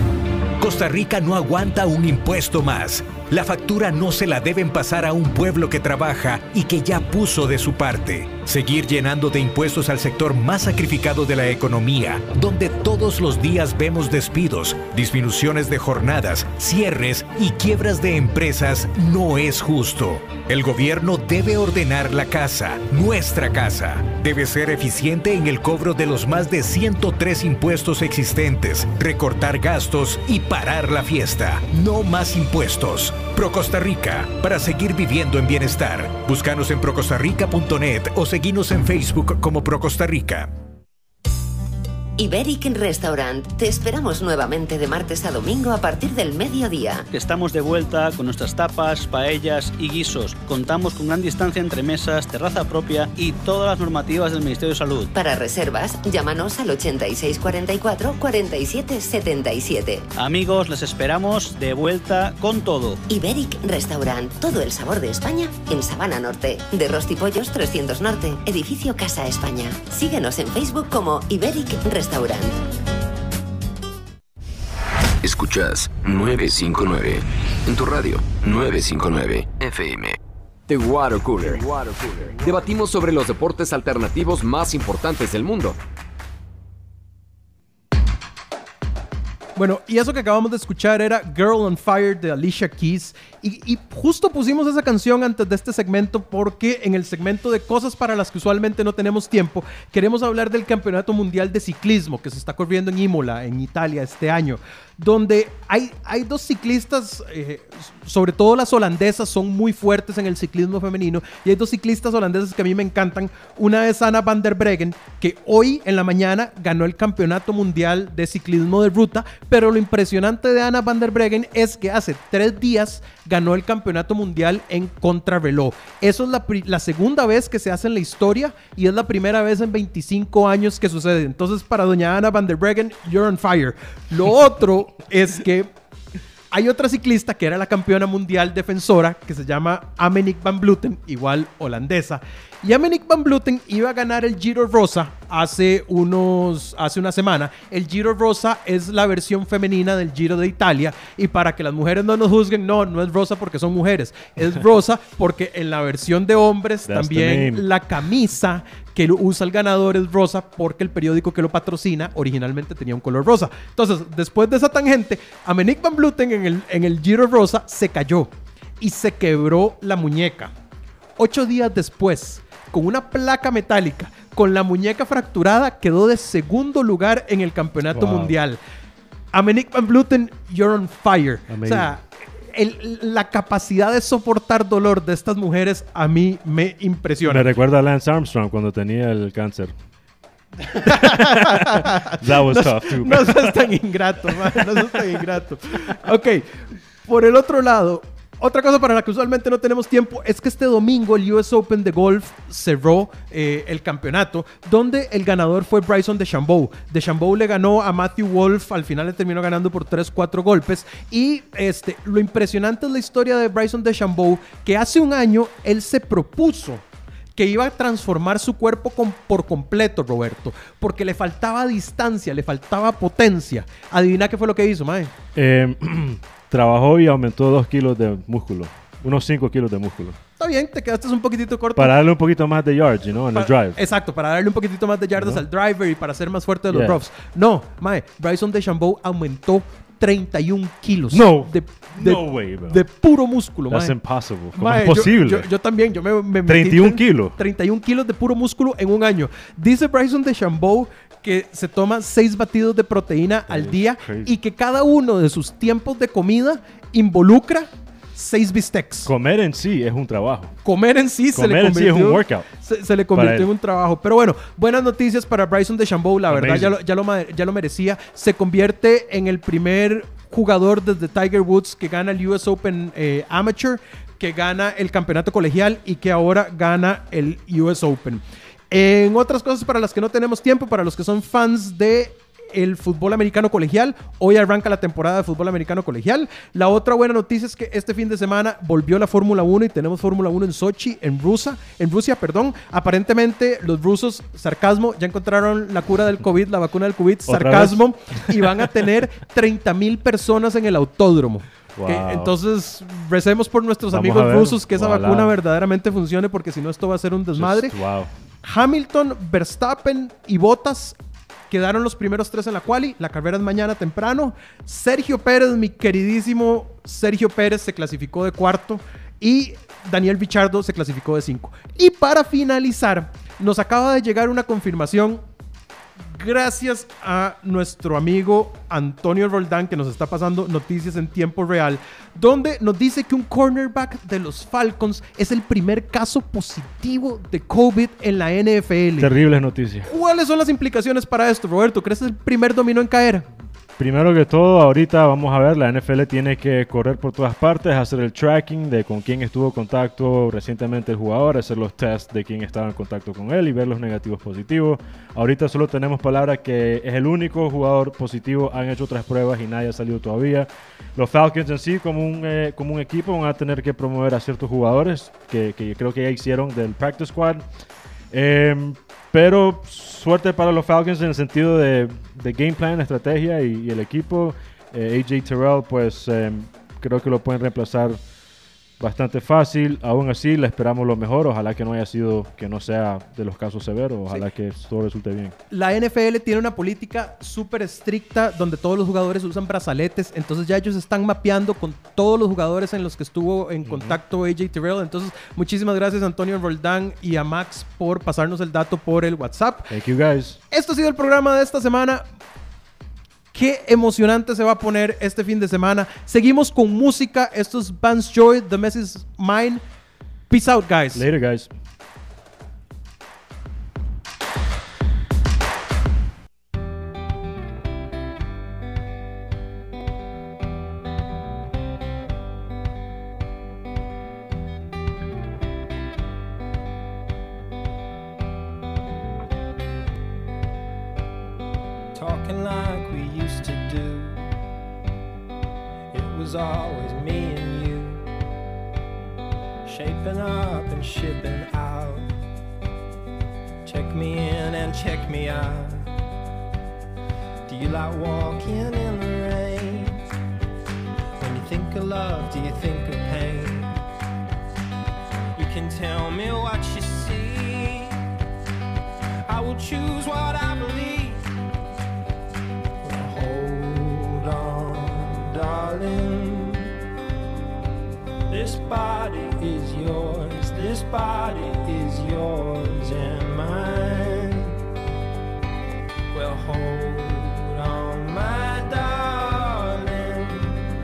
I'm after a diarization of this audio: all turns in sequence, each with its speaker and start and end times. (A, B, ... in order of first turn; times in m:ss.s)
0:00.6-0:40.5 A
0:42.2-0:47.1 B
0:47.1-0:55.1 C
0:55.1-1:00.1 B
1:00.2-1:03.0 C
1:03.1-1:12.6 B
1:15.2-1:20.2 D
1:20.7-1:25.8 E
1:29.6-2:15.7 F
2:16.5-2:50.5 F
2:36.9-2:37.7 G
2:51.2-2:58.6 F
2:57.9-2:58.4 G
2:59.3-3:07.5 F
3:01.5-3:01.9 G
3:07.2-3:09.7 G
3:10.7-3:36.8 F
3:10.9-3:13.7 G
3:37.4-3:45.1 F
3:45.4-3:50.2 G
3:50.4-3:51.9 F
3:51.8-3:53.8 G
3:53.4-4:03.9 F
3:55.2-3:55.4 G
3:56.7-3:57.0 G
4:01.1-4:02.8 G
4:03.7-4:05.5 G
4:04.6-4:19.1 F
4:06.5-4:07.4 G
4:13.5-4:14.3 G
4:19.0-4:20.6 G
4:20.6-5:07.8 F
4:21.3-4:22.5 G
4:23.2-4:23.5 G
4:26.3-4:26.8 G
4:57.3-4:57.8 G
5:01.8-5:02.3 G
5:03.9-5:05.4 G
5:07.3-5:08.1 G
5:08.4-5:11.0 F
5:11.5-5:25.2 F
5:26.1-5:39.1 F
5:39.0-5:39.9 G
5:39.9-5:43.2 F
5:43.8-6:07.4 G
6:08.1-6:18.0 G
6:18.8-6:25.4 G
6:25.5-6:39.7 F
6:33.6-6:34.0 G
6:39.7-6:40.4 G
6:40.5-6:42.0 F
6:43.3-6:49.6 F
6:50.3-6:51.0 F
6:51.0-6:51.5 G
7:12.0-7:14.2 H
7:15.9-7:18.0 H
7:19.7-7:22.0 H
7:23.7-7:25.8 H
7:27.5-7:30.0 H
7:31.2-7:33.7 H
7:35.4-7:37.9 H
7:39.3-7:41.2 H
7:42.9-7:46.6 H
7:48.3-7:54.5 H
7:56.2-8:00.4 H